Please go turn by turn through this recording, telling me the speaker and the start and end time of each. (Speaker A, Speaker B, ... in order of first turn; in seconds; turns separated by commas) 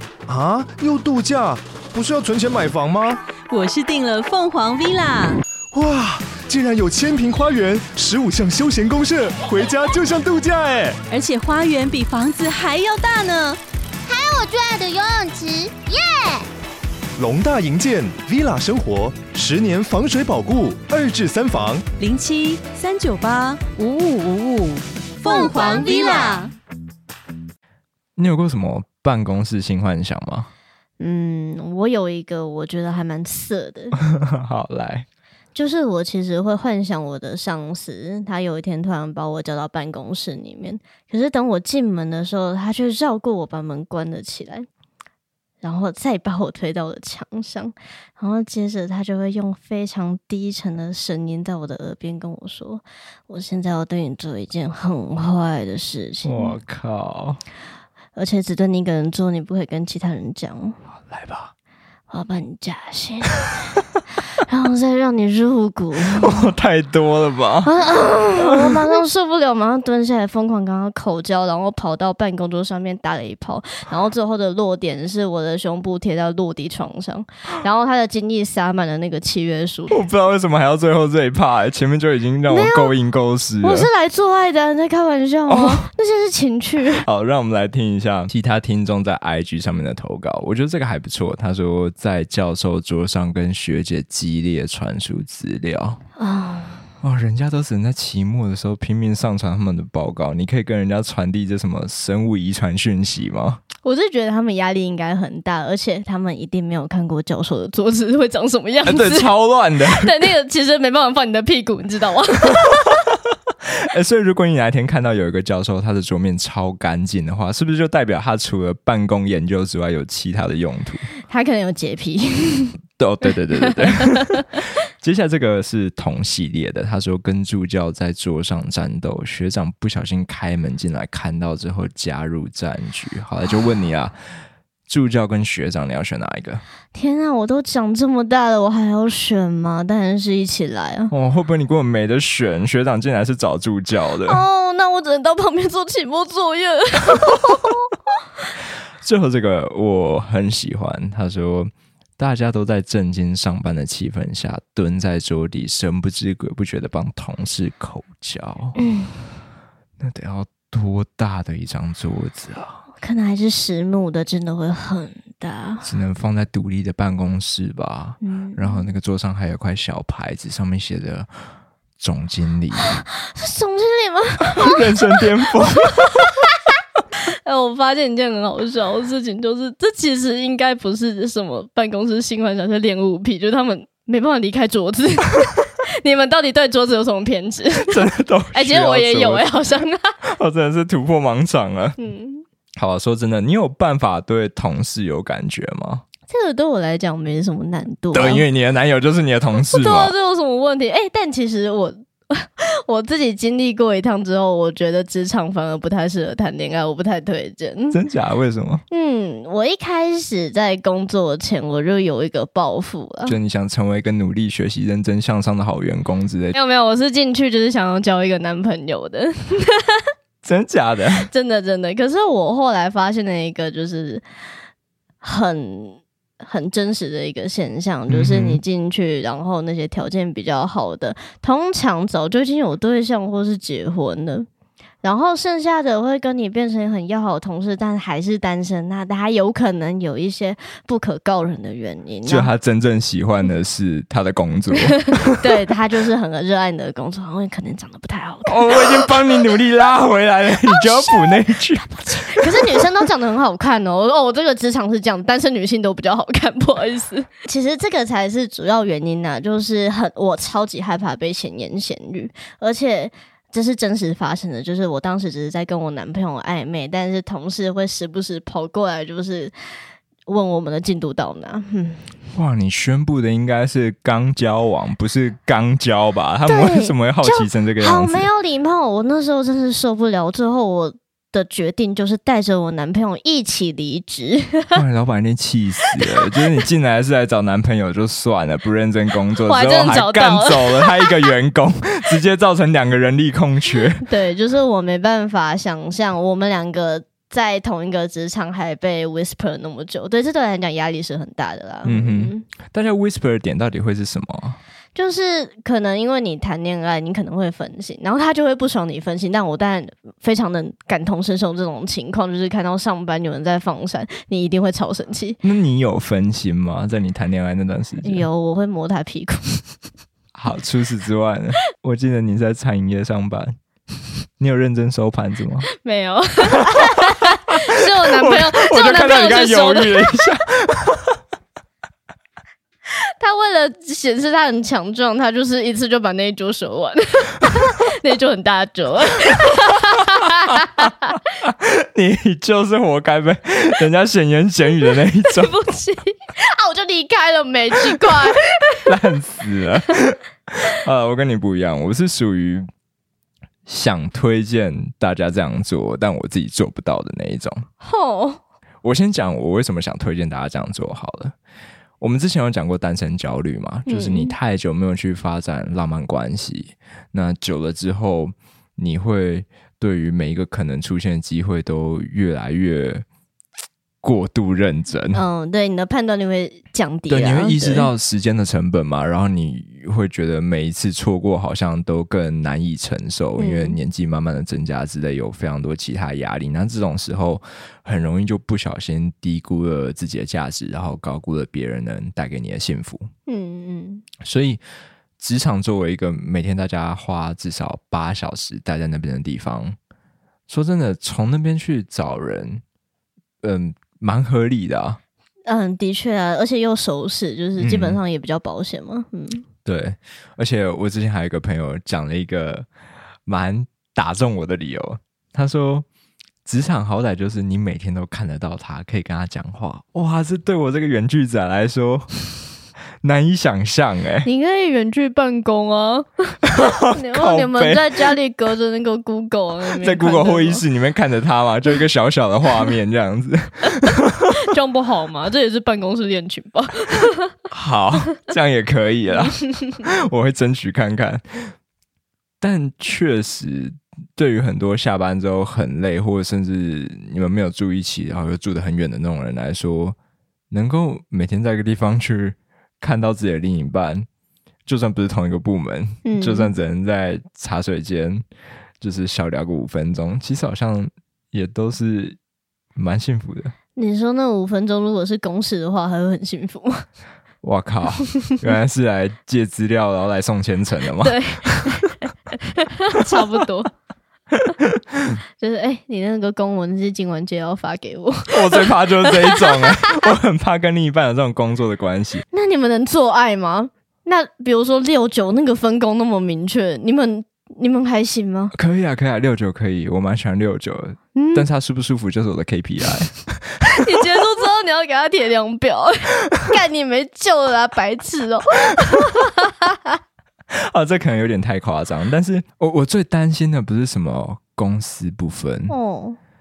Speaker A: 0.3-3.2, Speaker B: 3.5-5.4, Speaker A: 5.7-11.0, Speaker B: 11.1-13.6, Speaker C: 14.1-16.5, Speaker A: 17.2-21.8, Speaker B: 22.0-26.5, Speaker C: 25.2-26.4, Speaker D: 28.2-30.5, Speaker E: 31.0-34.0, Speaker D: 34.0-35.0, Speaker E: 35.5-44.7, Speaker E: 45.6-56.6, Speaker D: 56.2-57.4, Speaker E: 58.1-60.8, Speaker D: 61.1-61.5, Speaker E: 62.1-63.8, Speaker E: 64.4-66.5, Speaker D: 66.0-67.7, Speaker E: 67.6-80.0, Speaker D: 68.3-68.9, Speaker D: 79.9-83.9, Speaker E: 82.5-82.9, Speaker E: 83.6-87.0, Speaker D: 85.5-85.8, Speaker D: 87.0-96.0, Speaker E: 96.2-96.8, Speaker D: 97.0-103.6, Speaker E: 103.8-109.3, Speaker D: 108.8-110.2, Speaker E: 109.8-112.9, Speaker D: 113.7-121.1, Speaker E: 121.3-122.8, Speaker D: 123.0-124.4, Speaker E: 123.6-124.3, Speaker D: 125.0-134.2, Speaker D: 134.9-136.6, Speaker E: 136.9-141.1, Speaker D: 141.1-144.4, Speaker E: 144.2-147.9, Speaker D: 149.0-158.8, Speaker E: 158.8-159.2, Speaker D: 160.0-162.8, Speaker E: 163.0-165.9, Speaker D: 165.8-171.3, Speaker E: 168.2-168.8, Speaker D: 172.0-172.9, Speaker E: 172.8-175.2, Speaker D: 174.4-176.3, Speaker E: 175.7-176.4, Speaker E: 177.3-190.1, Speaker D: 187.9-189.5, Speaker D: 190.3-192.0, Speaker E: 192.0-192.4, Speaker D: 192.8-196.0, Speaker E: 196.3-198.5, Speaker D: 198.1-200.1, Speaker E: 199.6-208.0, Speaker D: 207.9-208.8, Speaker E: 208.9-213.4, Speaker D: 213.2-216.6, Speaker E: 216.5-220.0, Speaker D: 220.4-221.3, Speaker E: 221.2-224.2, Speaker E: 225.2-234.4, Speaker D: 228.1-228.6, Speaker E: 235.0-242.5, Speaker D: 242.2-245.4, Speaker E: 245.2-248.9, Speaker D: 248.5-252.9, Speaker E: 250.6-251.4, Speaker E: 252.1-269.5, Speaker E: 270.2-272.1, Speaker D: 272.3-278.3, Speaker E: 276.4-284.8, Speaker D: 284.7-294.0, Speaker E: 289.4-291.3, Speaker E: 294.0-302.4, Speaker D: 301.8-304.6, Speaker E: 304.9-315.4, Speaker D: 315.4-318.2, Speaker E: 318.0-319.6, Speaker D: 320.3-323.5, Speaker D: 324.4-325.7, Speaker E: 325.7-330.1, Speaker D: 326.7-327.2, Speaker D: 328.1-331.2, Speaker E: 333.2-341.1, Speaker D: 341.4-345.6, Speaker E: 345.2-348.9, Speaker D: 348.8-352.7, Speaker D: 353.6-357.6, Speaker E: 357.8-358.4, Speaker D: 358.8-361.3, Speaker D: 362.0-373.0, Speaker E: 363.9-364.4, Speaker D: 374.0-375.2, Speaker E: 375.1-377.9, Speaker D: 377.1-393.1, Speaker E: 383.4-383.8, Speaker E: 393.3-394.0, Speaker D: 394.2-394.6, Speaker D: 395.2-399.8, Speaker D: 400.5-402.6, Speaker D: 403.4-405.0, Speaker E: 405.4-409.4, Speaker D: 407.6-408.0, Speaker D: 409.6-412.7, Speaker D: 413.3-415.9, Speaker D: 416.4-422.2, Speaker D: 423.0-424.3, Speaker E: 424.2-430.6, Speaker D: 426.4-428.1, Speaker D: 429.7-434.2, Speaker E: 434.3-437.3, Speaker D: 437.5-441.5, Speaker D: 442.4-449.9, Speaker D: 450.5-454.1, Speaker D: 454.6-458.2, Speaker E: 456.0-456.5, Speaker D: 458.8-462.2, Speaker D: 462.8-463.5, Speaker E: 463.7-466.8, Speaker D: 467.4-471.8, Speaker E: 471.0-473.7, Speaker D: 474.3-474.8, Speaker E: 475.3-480.1, Speaker D: 478.3-482.2, Speaker E: 482.3-488.5, Speaker D: 488.5-493.9, Speaker E: 491.1-491.4, Speaker E: 493.6-499.9, Speaker D: 500.5-505.8, Speaker E: 505.7-506.2